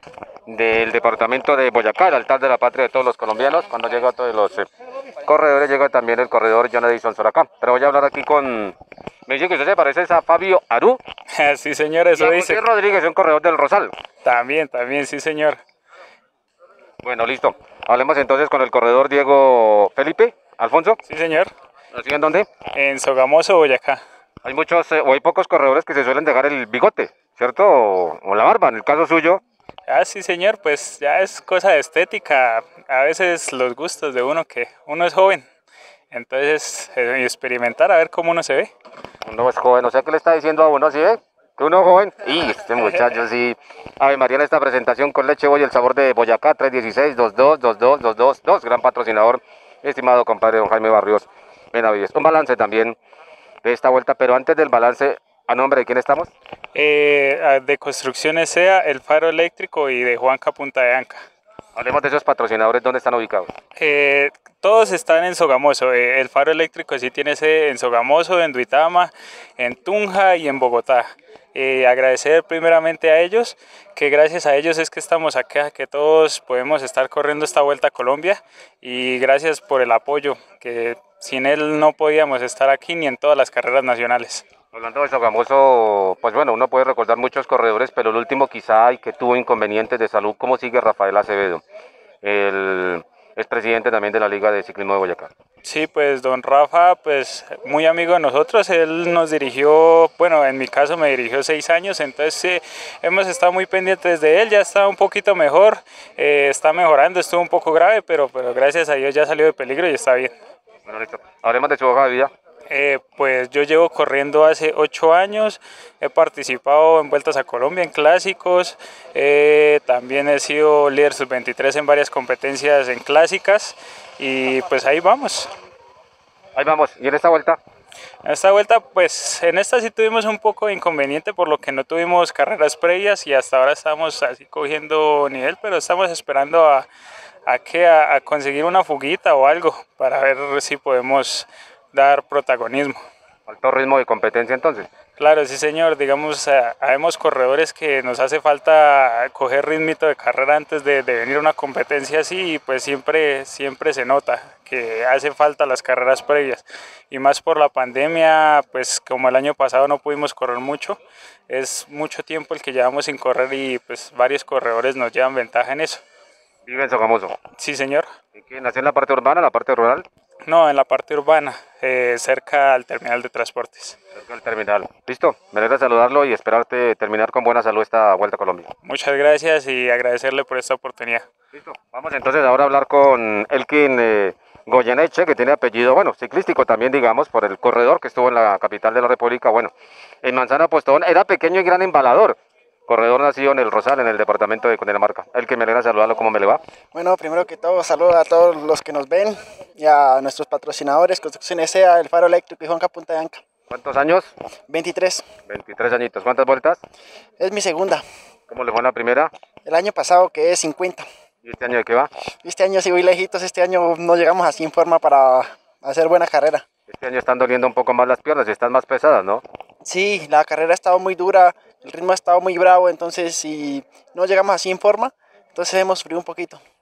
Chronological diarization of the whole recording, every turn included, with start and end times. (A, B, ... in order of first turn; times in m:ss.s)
0:00.5-0:04.7 A
0:05.2-0:08.7 A
0:09.3-0:11.0 A
0:11.3-0:12.6 B
0:12.1-0:13.9 A
0:14.2-0:15.6 B
0:17.0-0:21.0 A
0:21.1-0:21.5 B
0:21.9-0:22.5 A
0:22.7-0:24.0 B
0:24.4-0:29.4 A
0:29.9-0:35.4 B
0:36.1-0:38.7 B
0:39.2-0:53.0 A
0:53.6-0:56.3 A
0:56.7-1:01.2 B
1:01.7-1:03.5 A
1:03.8-1:24.4 B
1:24.7-1:31.6 A
1:32.2-1:35.3 A
1:35.6-1:50.3 B
1:50.9-1:52.3 A
1:52.7-2:05.5 B
2:06.6-2:07.6 A
2:08.2-2:16.9 B
2:17.5-2:23.0 B
2:23.5-2:24.9 A
2:25.2-2:46.0 B
2:46.6-2:47.3 A
2:47.6-2:48.1 B
2:48.3-2:50.0 A
2:50.5-2:54.0 B
2:54.2-2:58.7 A
2:58.8-3:01.2 B
3:01.5-3:16.6 A
3:16.9-3:23.4 C
3:23.7-3:24.3 A
3:24.7-3:25.2 C
3:25.5-3:26.8 A
3:27.4-3:28.0 C
3:28.5-3:29.3 A
3:29.6-3:31.0 C
3:31.4-3:32.1 A
3:32.4-3:36.6 C
3:36.9-3:39.4 A
3:39.8-3:46.6 C